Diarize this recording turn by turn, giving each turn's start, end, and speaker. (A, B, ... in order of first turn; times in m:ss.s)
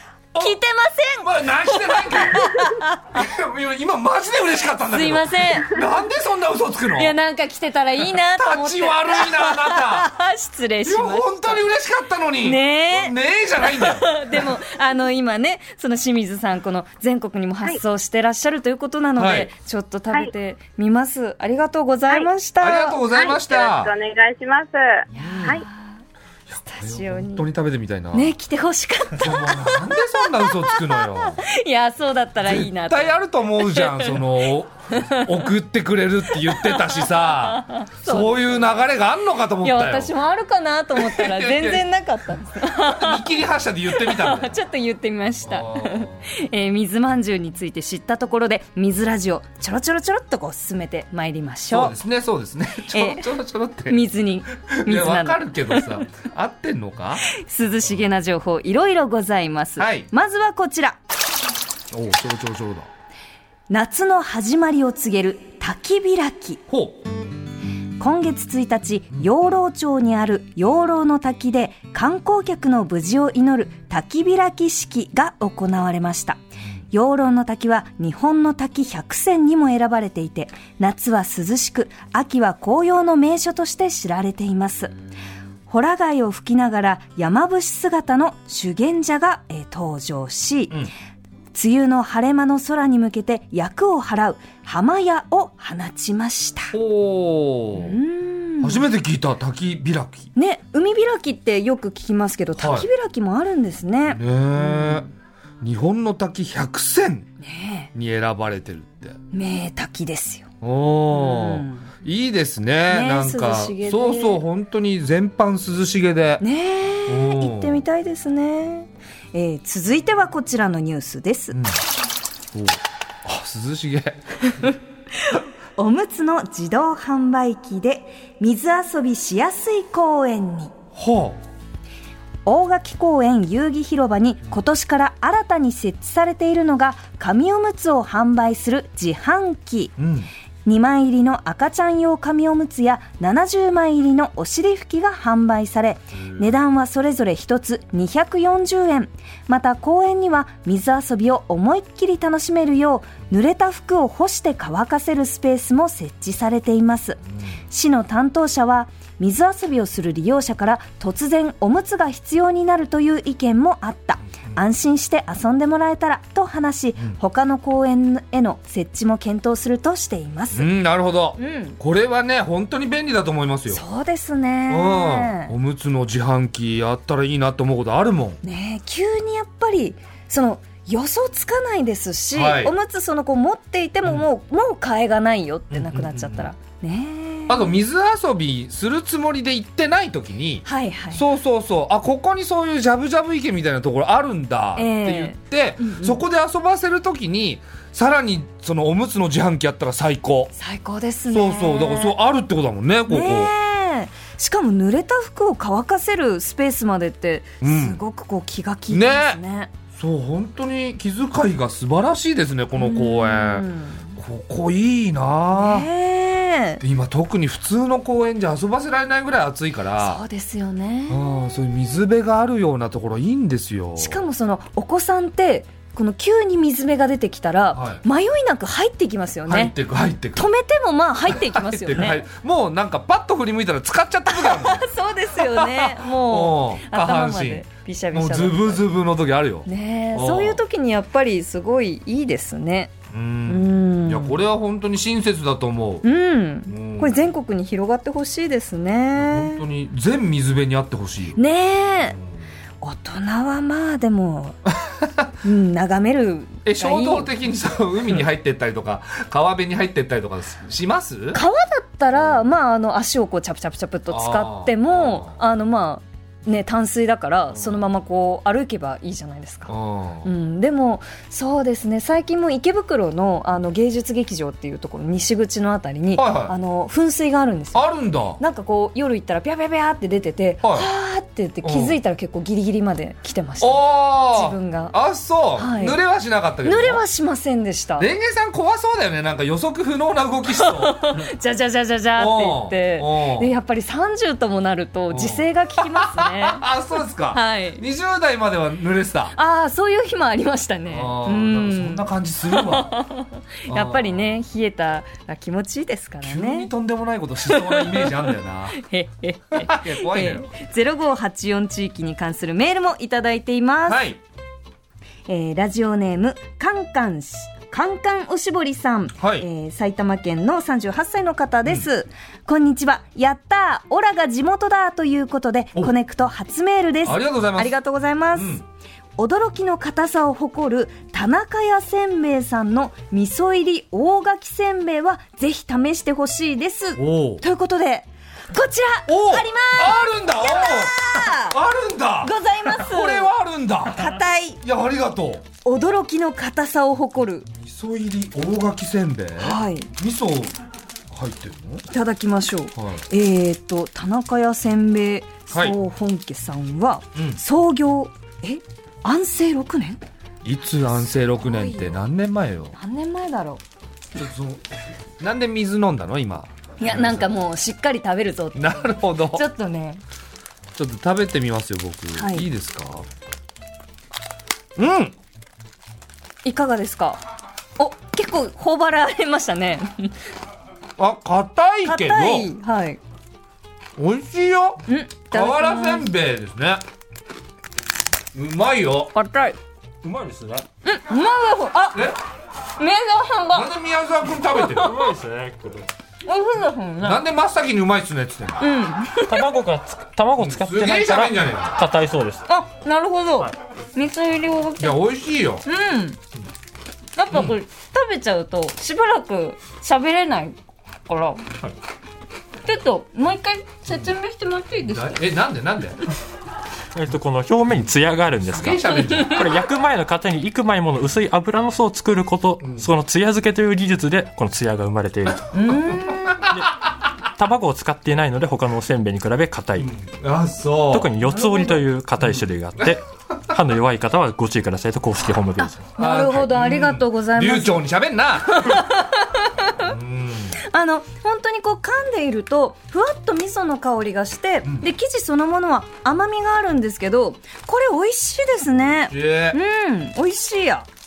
0:00.3-0:00.6 A
0:00.4-0:03.2 B
0:01.2-0:07.2 A
0:04.8-0:05.8 B
0:06.9-0:11.6 B
0:08.4-0:10.1 A
0:10.8-0:14.5 A
0:12.4-0:23.0 B
0:19.2-0:19.5 A
0:22.6-0:23.9 A
0:23.1-0:25.6 C
0:25.1-0:25.6 A
0:25.1-0:26.0 B
0:26.5-0:28.3 A
0:26.7-0:27.5 B
0:28.1-0:34.2 B
0:29.1-0:31.4 A
0:32.4-0:40.1 A
0:34.9-0:35.5 B
0:36.3-0:38.8 B
0:39.6-0:43.3 B
0:40.9-0:41.8 A
0:42.7-0:44.6 A
0:43.9-0:52.0 B
0:45.4-0:46.3 A
0:51.7-0:54.0 A
0:52.9-0:53.3 B
0:53.9-0:56.0 B
0:54.7-0:57.2 A
0:57.2-1:01.0 B
0:59.8-1:00.1 A
1:01.9-1:02.9 A
1:03.7-1:06.6 B
1:06.7-1:07.0 A
1:08.0-1:24.9 B
1:25.7-1:30.8 B
1:31.5-1:36.7 B
1:36.7-1:38.0 A
1:37.7-1:38.9 B
1:38.6-1:40.3 A
1:40.4-1:45.0 B
1:42.6-1:42.9 A
1:44.1-1:47.3 A
1:47.4-1:47.9 B
1:47.9-1:49.2 A
1:49.3-1:50.5 B
1:50.6-1:56.4 A
1:51.1-1:51.9 B
1:52.9-1:54.4 B
1:56.4-2:01.6 B
1:57.1-1:57.8 A
2:01.5-2:01.8 A
2:02.5-2:04.7 A
2:04.6-2:10.7 B
2:11.0-2:11.4 A
2:12.4-2:20.0 B
2:20.0-2:20.3 A
2:20.6-2:50.7 B
2:50.5-2:53.8 A
2:51.4-2:51.8 B
2:53.7-2:55.5 B
2:54.7-2:58.4 A
2:58.4-3:07.8 B
3:02.3-3:02.7 A
3:05.7-3:06.5 A
3:07.5-3:20.5 A
3:10.6-3:11.2 B
3:14.8-3:16.2 B
3:20.6-3:22.2 B
3:21.3-3:23.5 A
3:23.1-3:29.7 B
3:27.6-3:28.0 A
3:28.9-3:29.4 A
3:29.9-3:35.9 A
3:32.8-3:34.2 B
3:35.5-3:36.8 B
3:36.8-3:40.2 A
3:40.0-3:41.4 B
3:41.1-3:44.2 A
3:44.0-3:49.8 B
3:47.7-3:48.0 A
3:49.5-3:50.4 A
3:50.4-3:52.3 B
3:51.3-4:00.6 A
3:54.3-3:58.8 B
3:59.7-4:02.9 B
4:03.1-4:06.1 A
4:03.5-4:04.4 B
4:06.0-4:09.6 B
4:06.7-4:07.2 A
4:09.2-4:11.4 A
4:11.4-4:12.2 B
4:12.8-4:14.6 B
4:14.7-4:15.3 A
4:15.4-4:17.3 B
4:16.6-4:21.4 A
4:21.3-4:37.8 B
4:24.1-4:25.4 A
4:27.5-4:27.8 A
4:29.7-4:30.3 A
4:36.2-4:36.6 A
4:37.7-4:38.4 A
4:38.4-4:45.0 B
4:40.6-4:40.9 A
4:41.6-4:42.0 A
4:43.6-4:47.0 A
4:45.6-4:46.0 B
4:46.6-4:48.1 B
4:48.0-4:51.3 A
4:50.5-4:56.7 B
4:52.2-4:53.5 A
4:55.1-4:59.4 A
4:57.3-4:57.8 B
4:59.4-5:06.7 B
5:00.9-5:02.9 A
5:03.7-5:04.3 A
5:06.2-5:08.8 A
5:07.5-5:14.1 B
5:09.6-5:10.5 A
5:13.9-5:14.2 A
5:15.3-5:28.6 B
5:19.2-5:19.5 A
5:27.0-5:27.8 A
5:28.4-5:28.6 A
5:29.2-5:41.6 B
5:37.0-5:37.4 A
5:39.1-5:45.4 A
5:42.2-5:43.3 B
5:43.9-5:44.6 B
5:45.6-5:47.5 B
5:47.5-5:50.5 A
5:49.4-5:49.9 B
5:51.1-5:51.8 A
5:51.9-6:00.0 B
5:52.8-5:53.0 A
5:55.5-5:55.8 A
5:57.2-5:57.4 A
6:00.4-6:02.8 A
6:01.4-6:02.0 B
6:02.7-6:03.6 B
6:04.2-6:04.7 A
6:05.2-6:07.3 A
6:06.8-6:10.0 B
6:08.6-6:09.4 A
6:10.8-6:13.1 A
6:12.2-6:12.5 B
6:14.8-6:15.2 A
6:16.4-6:17.2 B
6:17.8-6:20.2 B
6:21.0-6:22.5 A
6:21.8-6:23.0 B
6:24.0-6:26.8 A
6:24.9-6:26.1 B
6:28.3-6:29.1 A
6:29.1-6:29.6 B
6:30.0-6:30.7 D
6:30.8-6:32.1 B
6:31.9-6:32.2 A
6:32.8-6:33.7 B
6:33.5-6:34.9 A
6:34.4-6:35.1 B
6:34.7-6:35.9 D
6:36.2-6:37.2 B
6:37.0-6:38.7 A
6:38.6-6:39.5 B
6:39.3-6:42.4 D
6:40.4-6:41.8 A
6:42.5-6:45.0 B
6:44.8-6:45.7 A
6:45.7-6:46.2 B
6:47.2-6:50.6 B
6:51.1-6:51.5 B
6:52.6-6:55.3 B
6:54.9-6:56.0 A
6:56.9-7:05.9 D
6:58.5-6:59.5 A
6:58.9-6:59.4 B
7:02.6-7:02.9 A
7:05.5-7:06.5 B
7:05.7-7:06.6 A
7:06.5-7:09.9 D
7:09.8-7:12.9 A
7:10.9-7:16.3 D
7:11.3-7:11.8 B
7:15.6-7:17.8 B
7:16.0-7:18.9 A
7:18.5-7:19.9 B
7:19.8-7:20.6 A
7:20.6-7:30.9 B
7:28.8-7:29.6 A